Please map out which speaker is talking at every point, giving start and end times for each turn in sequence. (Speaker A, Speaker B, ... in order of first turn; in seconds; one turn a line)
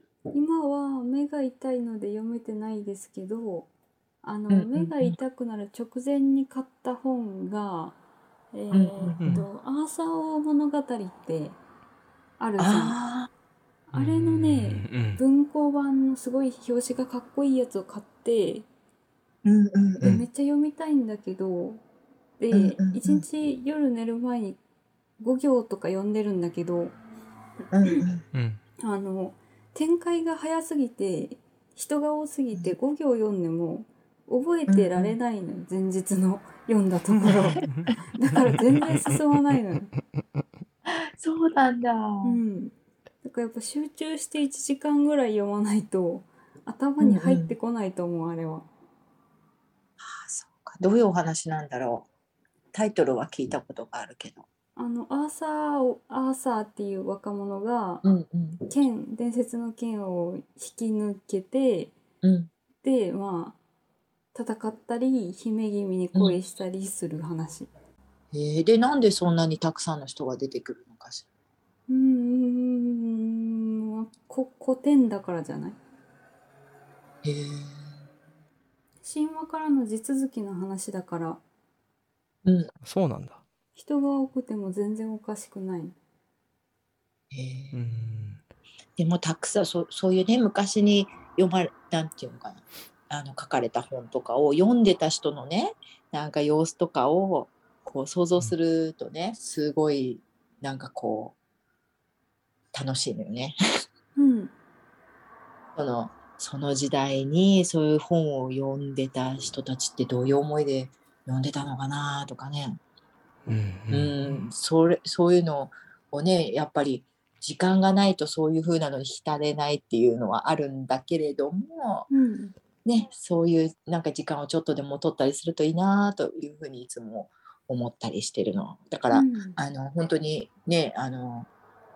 Speaker A: 0.3-3.7
Speaker A: 4.2-8.0
Speaker B: 4.5-5.2
Speaker A: 8.5-11.6
Speaker B: 8.7-9.4
Speaker C: 9.2-9.5
Speaker A: 12.4-13.0
Speaker B: 12.6-13.3
Speaker A: 13.9-18.7
Speaker C: 13.9-15.2
Speaker B: 19.4-20.2
Speaker A: 20.0-21.8
Speaker A: 22.4-24.6
Speaker B: 22.5-23.3
Speaker A: 25.2-27.0
Speaker B: 27.7-28.2
Speaker C: 28.3-28.6
Speaker A: 28.8-39.9
Speaker B: 34.7-35.2
Speaker B: 40.9-42.4
Speaker A: 42.2-48.7
Speaker B: 47.0-47.5
Speaker B: 50.0-52.1
Speaker B: 52.7-54.5
Speaker A: 54.8-58.0
Speaker B: 58.0-58.6
Speaker A: 58.7-62.0
Speaker B: 62.2-62.5
Speaker A: 62.8-63.6
Speaker A: 64.3-67.7
Speaker B: 68.3-71.3
Speaker A: 71.9-75.8
Speaker B: 77.2-77.9
Speaker A: 79.0-81.4
Speaker C: 82.8-83.4
Speaker A: 83.8-86.0
Speaker B: 87.3-87.9
Speaker C: 87.7-88.4
Speaker B: 89.0-101.4
Speaker B: 102.7-103.6
Speaker A: 104.2-104.5
Speaker B: 105.8-112.8
Speaker C: 113.5-114.5
Speaker B: 113.9-122.1
Speaker A: 122.1-122.5
Speaker B: 122.8-131.5
Speaker A: 129.1-129.6